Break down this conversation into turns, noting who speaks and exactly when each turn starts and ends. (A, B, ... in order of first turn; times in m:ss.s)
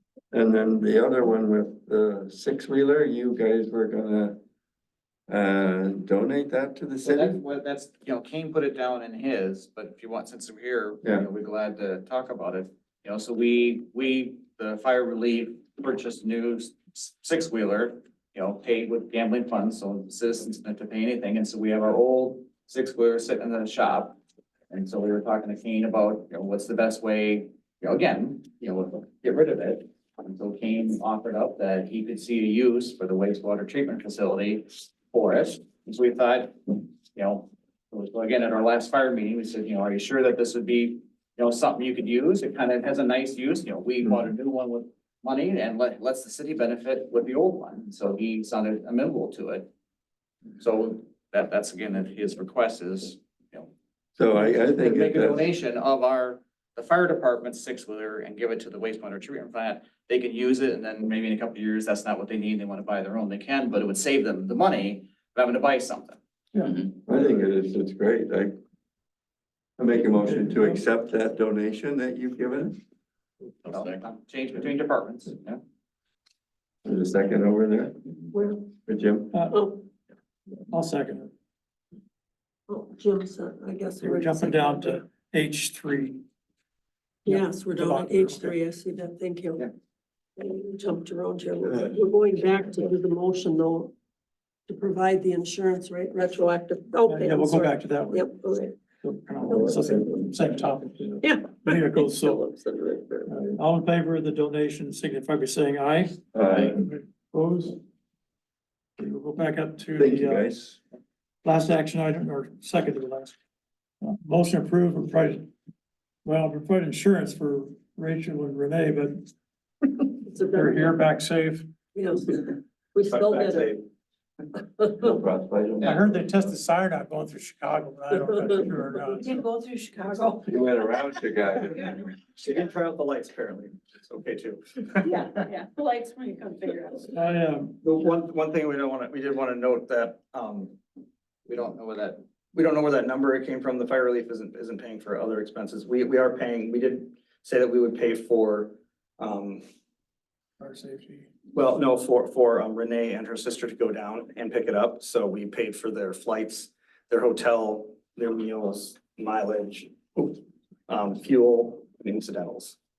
0:00.3-0:04.4 A
0:05.3-0:07.4 A
0:07.0-0:24.2 B
0:24.7-0:49.7 B
0:50.6-0:53.7 B
0:54.2-0:55.5 A
0:54.3-1:06.2 B
1:07.0-1:08.5 A
1:09.8-1:12.8 A
1:10.2-1:10.8 C
1:13.6-1:15.6 B
1:16.8-1:18.0 A
1:18.3-1:18.7 D
1:18.8-1:19.3 A
1:19.3-1:19.6 C
1:19.5-1:19.9 D
1:20.7-1:21.3 C
1:22.7-1:25.0 D
1:24.0-1:26.2 C
1:27.2-1:29.6 D
1:27.2-1:28.6 C
1:30.4-1:33.9 D
1:34.7-1:38.8 D
1:37.0-1:38.4 C
1:39.0-1:42.4 C
1:39.4-1:40.1 D
1:41.2-1:43.4 D
1:43.3-1:47.8 C
1:46.3-1:46.8 A
1:49.0-1:50.4 C
1:49.9-1:50.8 A
1:51.4-1:53.4 C
1:54.0-1:55.5 C
1:56.2-1:59.3 C
2:00.2-2:01.0 D
2:00.5-2:01.7 C
2:01.9-2:03.7 D
2:03.1-2:03.8 E
2:04.6-2:05.2 D
2:05.0-2:06.6 A
2:05.8-2:09.3 C
2:08.3-2:08.6 D
2:09.1-2:10.6 F
2:10.4-2:12.0 A
2:11.6-2:12.0 F
2:12.3-2:15.2 E
2:15.0-2:17.1 F
2:17.1-2:17.8 C
2:17.8-2:20.8 E
2:21.5-2:22.2 B
2:22.5-2:29.6 E
2:30.6-2:31.3 C
2:31.5-2:42.8 E